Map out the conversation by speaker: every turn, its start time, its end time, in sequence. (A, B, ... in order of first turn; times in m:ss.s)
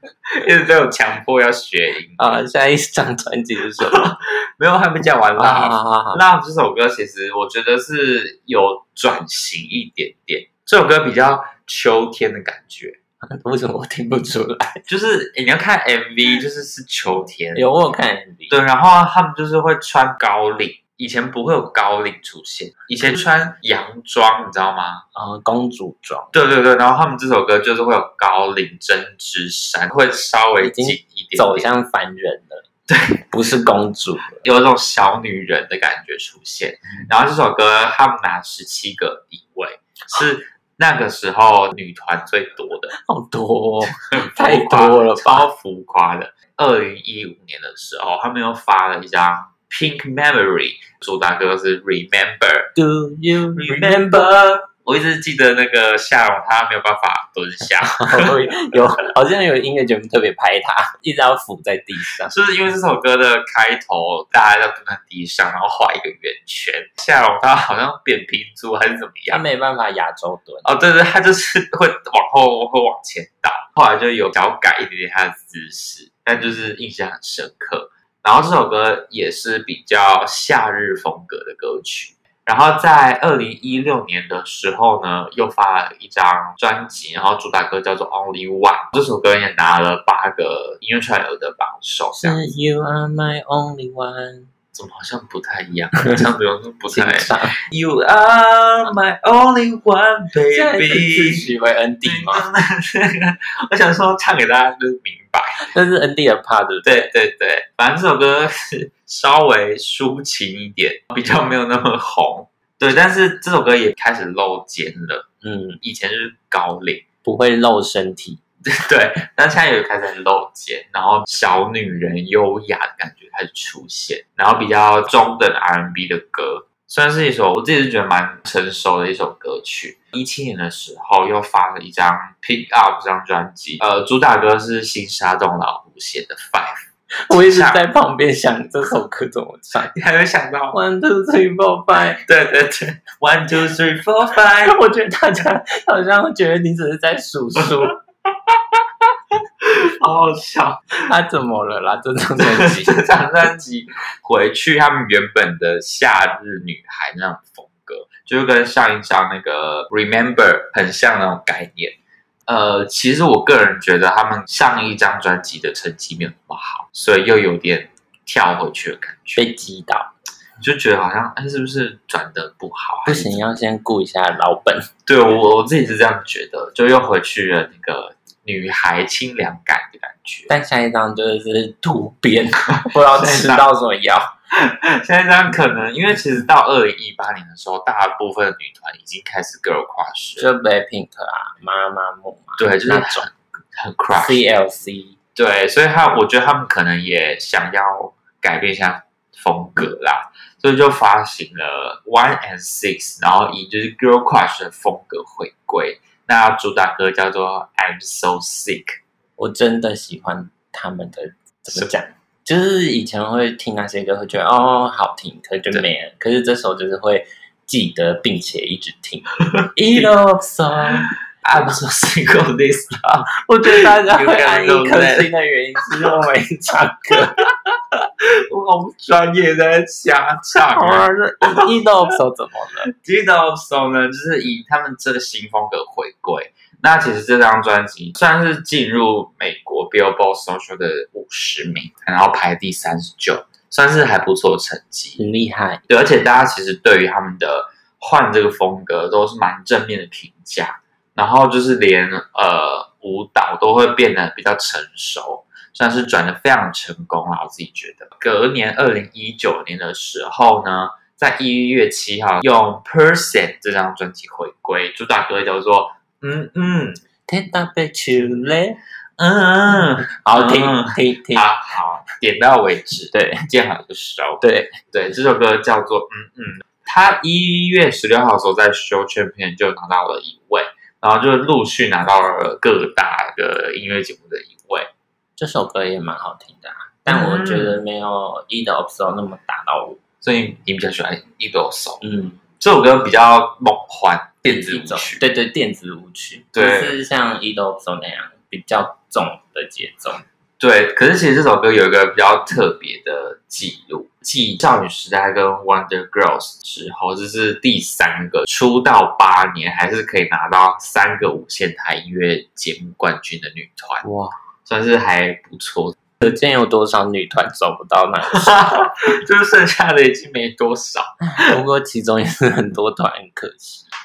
0:00.3-0:02.4 A
0:02.2-0:04.1 B
0:03.8-0:13.0 A
0:05.4-0:06.2 B
0:13.2-0:14.8 B
0:14.9-0:17.7 A
0:17.5-0:18.5 B
0:18.5-0:25.0 A
0:25.1-0:26.3 B
0:26.3-0:31.7 A
0:30.6-0:32.6 B
0:32.9-0:33.2 A
0:33.3-0:34.4 B
0:34.4-0:42.9 A
0:42.9-0:45.5 B
0:43.9-0:52.7 A
0:52.8-0:54.3 B
0:53.5-0:58.4 A
0:57.8-1:02.3 B
1:02.2-1:09.4 A
1:09.3-1:10.7 B
1:10.6-1:32.4 A
1:32.2-1:34.5 B
1:34.7-1:41.5 A
1:36.9-1:37.6 B
1:40.5-1:42.4 B
1:42.0-1:45.6 A
1:45.6-1:47.1 B
1:46.8-1:55.2 A
1:55.4-1:55.8 B
1:55.8-1:57.0 A
1:57.2-1:58.4 B
1:58.7-2:17.8 A
2:17.3-2:19.9 B
2:19.9-2:20.8 A
2:20.7-2:22.2 B
2:22.2-2:24.8 A
2:24.6-2:28.0 B
2:29.6-2:31.0 A
2:31.0-2:32.9 B
2:32.4-2:49.4 A
2:49.4-2:50.1 B
2:50.6-2:53.4 A
2:53.0-2:54.9 B
2:55.0-3:00.5 A
3:00.5-3:04.3 B
3:02.8-3:03.7 A
3:04.5-3:10.5 A
3:10.4-3:13.3 B
3:12.6-3:14.4 A
3:14.1-3:15.1 B
3:15.4-3:29.0 A
3:29.4-3:41.1 B
3:39.5-3:40.1 A
3:41.0-3:45.3 A
3:43.3-3:47.4 B
3:47.1-3:51.8 A
3:50.7-3:52.9 B
3:52.9-4:05.2 A
4:05.2-4:05.8 B
4:05.9-4:27.0 A
4:27.3-4:28.8 B
4:29.2-4:44.9 A
4:30.1-4:31.5 B
4:33.1-4:33.4 B
4:34.4-4:34.7 B
4:45.4-4:50.0 B
4:47.1-4:47.8 A
4:50.2-4:52.0 A
4:52.0-4:52.4 B
4:52.6-4:55.2 A
4:54.5-5:00.2 B
4:56.5-4:57.0 A
5:00.6-5:14.0 A
5:14.0-5:14.4 B
5:14.6-5:16.2 A
5:16.2-5:18.9 B
5:18.3-5:21.6 A
5:21.2-5:23.9 B